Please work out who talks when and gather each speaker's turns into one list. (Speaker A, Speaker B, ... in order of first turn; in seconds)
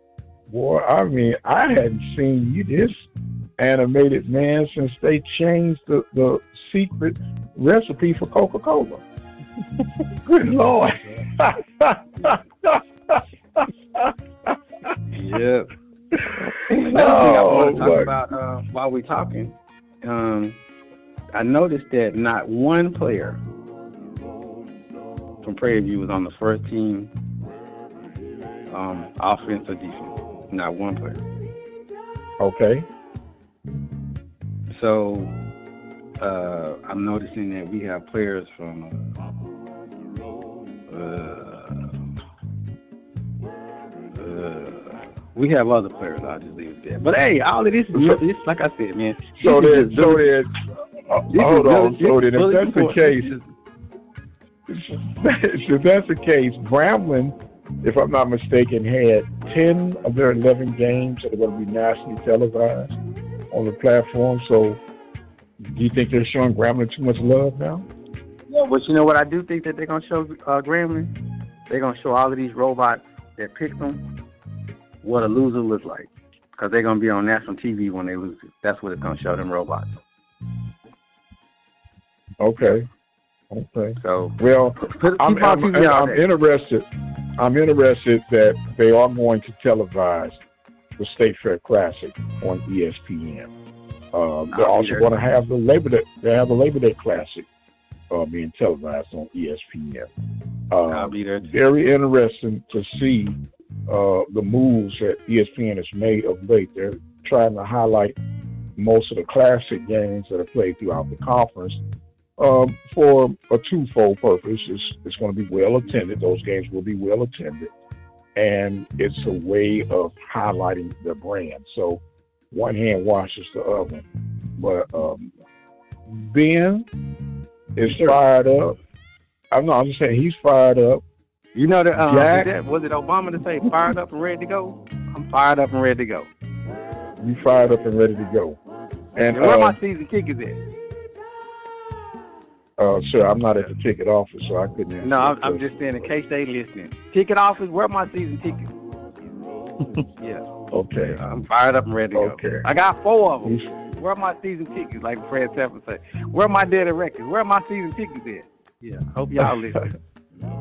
Speaker A: 0.5-9.0, 10.2-13.6, 16.8-18.1, 32.4-32.9, 47.9-48.2, 49.4-53.3, 54.7-63.0, 63.5-64.8, 65.6-67.8, 82.4-82.9, 83.5-86.9, 87.4-90.4, 91.0-93.5, 94.1-97.5, 98.1-100.1, 100.7-108.2, 108.8-111.8, 112.4-117.7, 118.3-124.0, 124.6-125.3, 126.1-126.9, 127.8-128.8, 129.5-131.0, 132.0-132.5, 137.2-138.6, 139.1-139.8, 142.8-145.8, 150.7-151.2, 152.1-152.7
Speaker B: 15.1-15.7, 16.7-20.6, 21.3-23.4, 25.4-27.1, 28.7-31.2, 34.7-35.4, 36.2-39.1, 40.9-42.0, 44.1-50.3, 51.3-53.5, 68.5-71.1, 71.7-74.0, 75.0-80.0, 84.0-86.2, 94.5-95.1, 100.9-101.5, 131.5-136.3, 139.3-140.6, 145.0-148.7, 150.2-150.4, 151.0-159.9